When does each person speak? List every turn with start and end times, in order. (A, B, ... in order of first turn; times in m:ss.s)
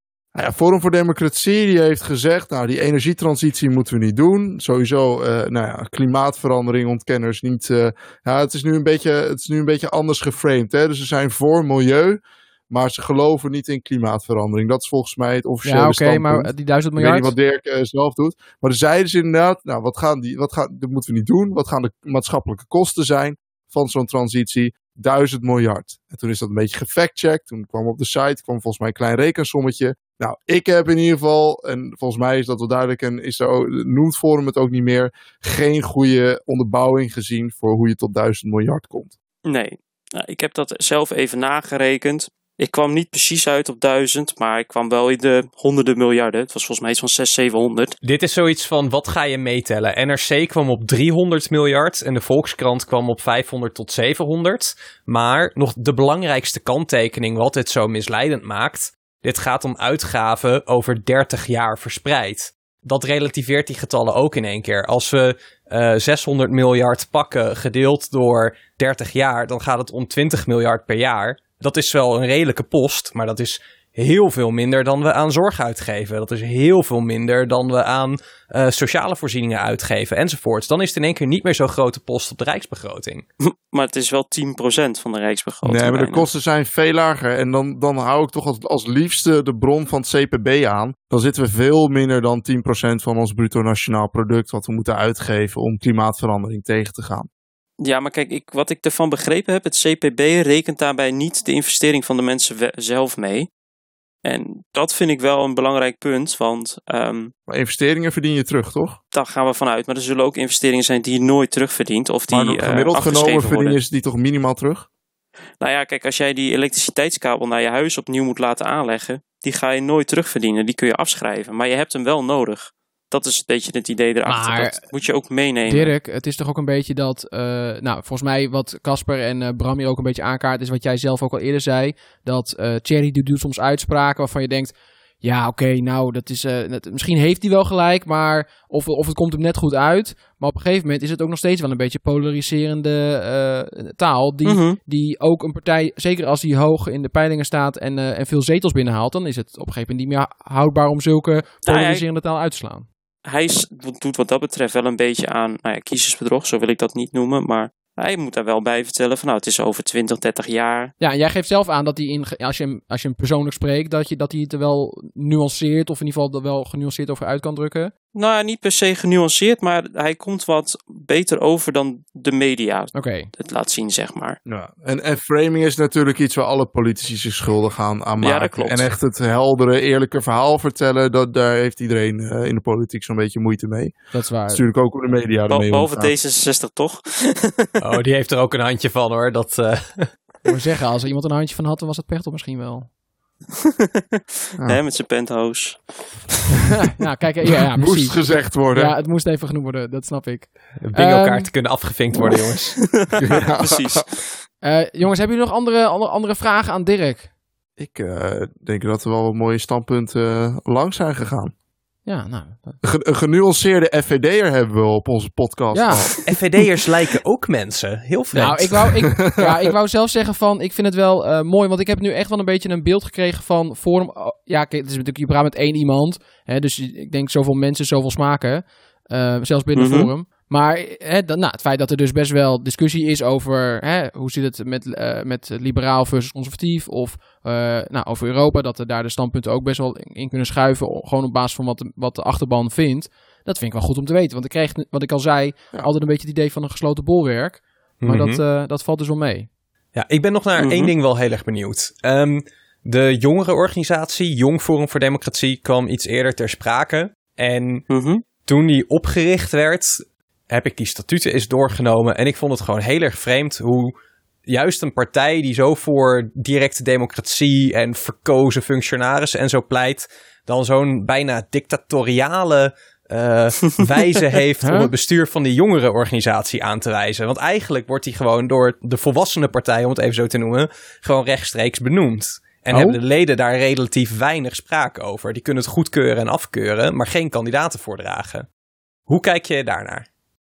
0:00.3-0:39.1 A
0:15.6-0:17.3 B
0:39.4-0:48.0 C
0:48.0-1:23.2 D
1:23.4-1:26.3 C
1:25.6-1:37.3 A
1:37.8-1:43.5 C
1:44.2-1:47.3 C
1:47.5-1:49.0 A
1:49.1-1:53.8 C
1:52.3-1:54.9 A
1:55.6-2:05.9 C
2:04.3-2:04.8 B
2:05.7-2:32.9 B
2:24.4-2:24.8 C
2:31.6-2:32.0 C
2:33.2-2:40.9 C
2:41.0-2:47.9 B
2:48.1-2:54.4 C
2:52.9-2:53.3 B
2:54.4-3:04.0 A
2:58.2-2:58.9 C
3:04.1-3:04.6 B
3:04.5-3:06.1 A
3:05.5-3:07.7 C
3:07.8-3:10.1 D
3:10.4-3:12.9 B
3:13.6-3:16.4 C
3:16.8-3:21.5 B
3:17.7-3:18.9 A
3:20.8-3:22.9 D
3:22.3-3:24.4 C
3:23.2-3:24.0 A
3:24.6-3:27.3 B
3:27.8-3:31.5 A
3:32.0-3:32.8 B
3:32.8-3:36.1 A
3:35.7-3:36.1 B
3:36.2-3:39.0 D
3:38.3-4:09.5 B
3:39.1-3:39.7 A
3:49.7-3:50.1 C
4:08.0-4:08.4 D
4:09.9-4:17.8 D
4:10.6-4:10.9 C
4:17.9-4:18.2 C
4:18.4-4:23.9 D
4:24.5-4:48.5 D
4:34.6-4:34.9 B
4:42.7-4:43.0 B
4:49.1-4:50.0 D